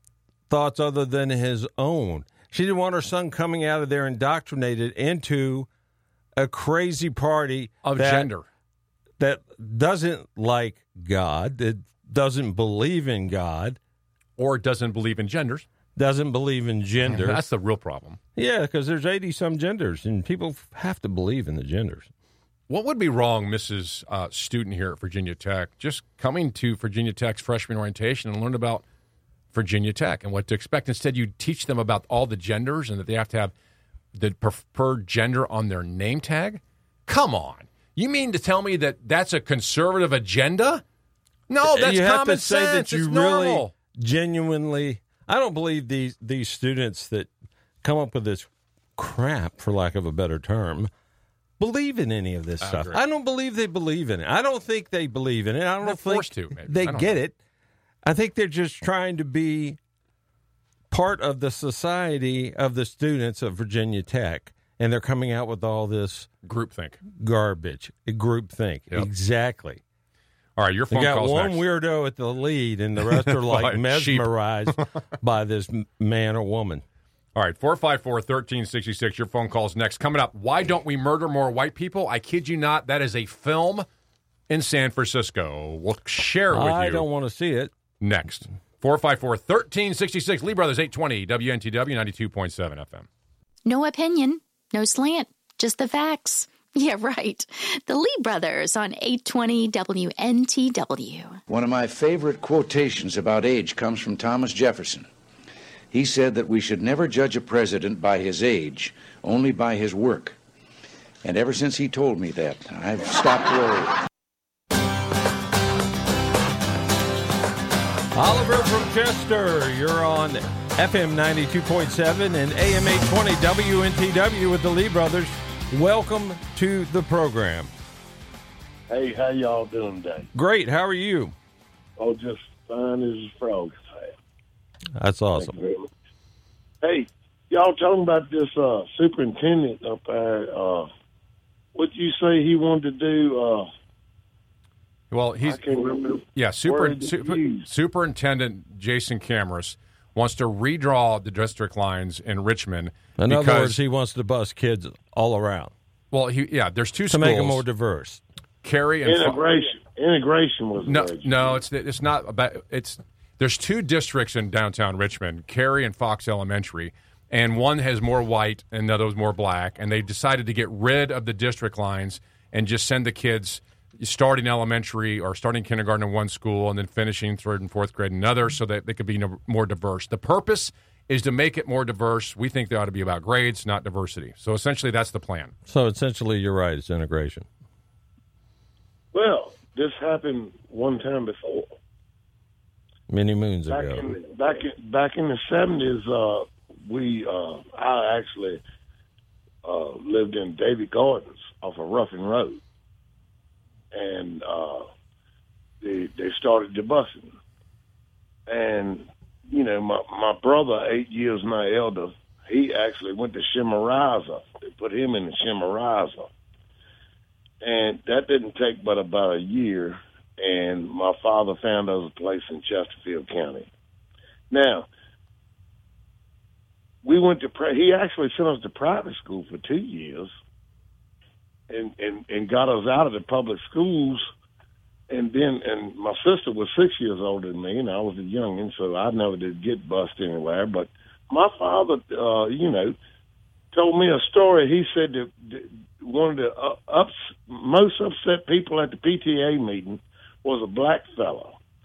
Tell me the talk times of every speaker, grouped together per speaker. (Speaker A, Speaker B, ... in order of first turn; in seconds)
Speaker A: 0.5-5.7, 6.4-8.3, 9.2-13.8, 16.0-17.4, 18.4-22.1, 41.6-47.3, 47.8-50.9, 51.6-57.4, 58.0-59.8, 60.9-66.3, 67.1-69.8, 70.9-76.8, 86.5-87.7, 118.1-127.7, 130.3-131.4, 135.0-135.6, 153.2-155.7, 157.1-158.2, 185.7-187.5, 193.1-194.1
Speaker B: 7.8-8.5, 14.4-15.7, 17.1-18.2, 22.7-28.8, 29.5-33.5, 34.1-40.8, 41.5-43.7, 52.6-53.0, 55.8-57.2, 66.4-67.0, 70.6-71.6, 73.1-74.9, 77.3-83.9, 84.5-87.1, 88.0-93.1, 145.1-153.8, 156.1-157.6, 158.6-159.4, 160.8-185.5
Speaker C: 93.7-101.4
Speaker D: 101.5-105.1, 105.9-110.3, 111.2-114.0
Speaker E: 128.9-130.3, 132.0-134.1, 135.3-135.9, 136.8-140.9, 141.8-143.7, 145.4-147.7, 159.1-161.5, 189.1-191.7, 193.7-198.6, 199.7-202.6, 203.9-204.9, 205.8-207.3, 208.5-216.3, 217.6-223.7, 224.5-224.9, 227.1-230.3, 231.7-234.2, 235.1-243.0, 243.7-251.6